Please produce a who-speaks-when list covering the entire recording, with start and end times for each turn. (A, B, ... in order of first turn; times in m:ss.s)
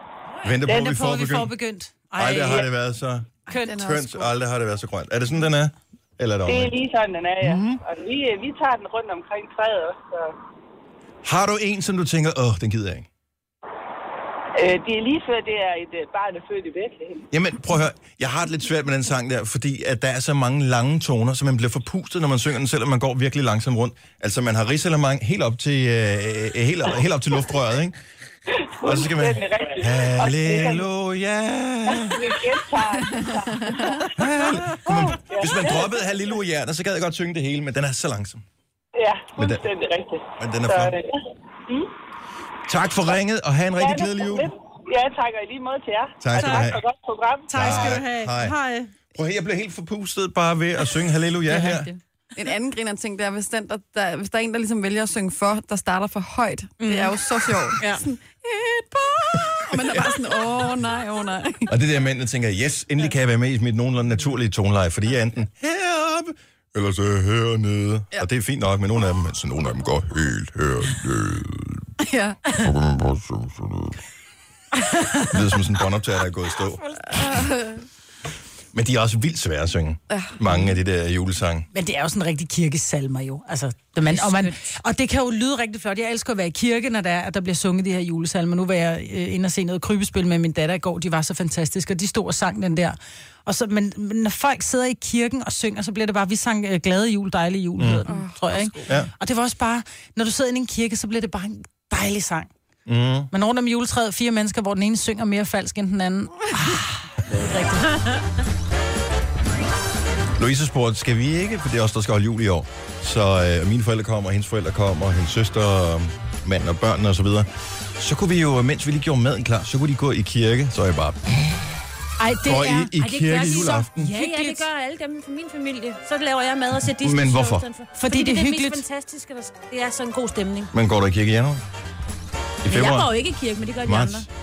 0:00.4-0:01.5 A
0:00.6-0:02.7 B
0:02.2-0:06.7 A
0:03.5-0:03.8 B
0:03.5-0:04.3 C
0:06.4-0:10.3 D
0:07.4-0:07.8 A
0:11.2-0:13.1 A
0:14.6-0:17.2 D
0:17.3-0:28.0 A
0:28.7-0:30.8 D
0:28.8-0:32.4 A
0:31.9-0:34.1 D
0:33.1-0:33.8 C
0:34.1-0:38.4 A
0:34.8-0:36.2 D
0:39.0-0:41.9 D
0:39.4-0:39.6 A
0:40.4-0:41.0 A
0:42.7-0:44.5 A
0:43.8-0:48.0 D
0:46.2-0:46.8 A
0:46.4-0:46.6 B
0:47.5-0:48.9 B
0:47.5-0:48.6 A
0:49.1-0:51.9 A
0:51.5-1:01.7 C
0:56.8-0:58.0 E
0:59.3-1:00.5 A
1:01.7-1:11.9 A
1:12.0-1:12.4 C
1:12.6-1:13.9 A
1:15.2-1:17.5 A
1:17.0-1:17.8 C
1:18.7-1:21.7 A
1:20.1-1:20.5 C
1:21.7-1:42.5 B
1:24.1-1:24.6 E
1:37.8-1:38.0 A
1:38.1-1:38.9 C
1:38.8-1:39.1 A
1:42.8-1:43.3 A
1:43.3-1:48.0 B
1:50.4-2:01.4 A
2:02.2-2:02.9 B
2:02.4-2:04.1 A
2:03.0-2:10.7 E
2:03.9-2:04.7 B
2:06.9-2:07.6 A
2:08.0-2:08.8 B
2:10.7-2:11.6 A
2:12.6-2:13.1 A
2:12.7-2:14.3 E
2:13.8-2:14.3 A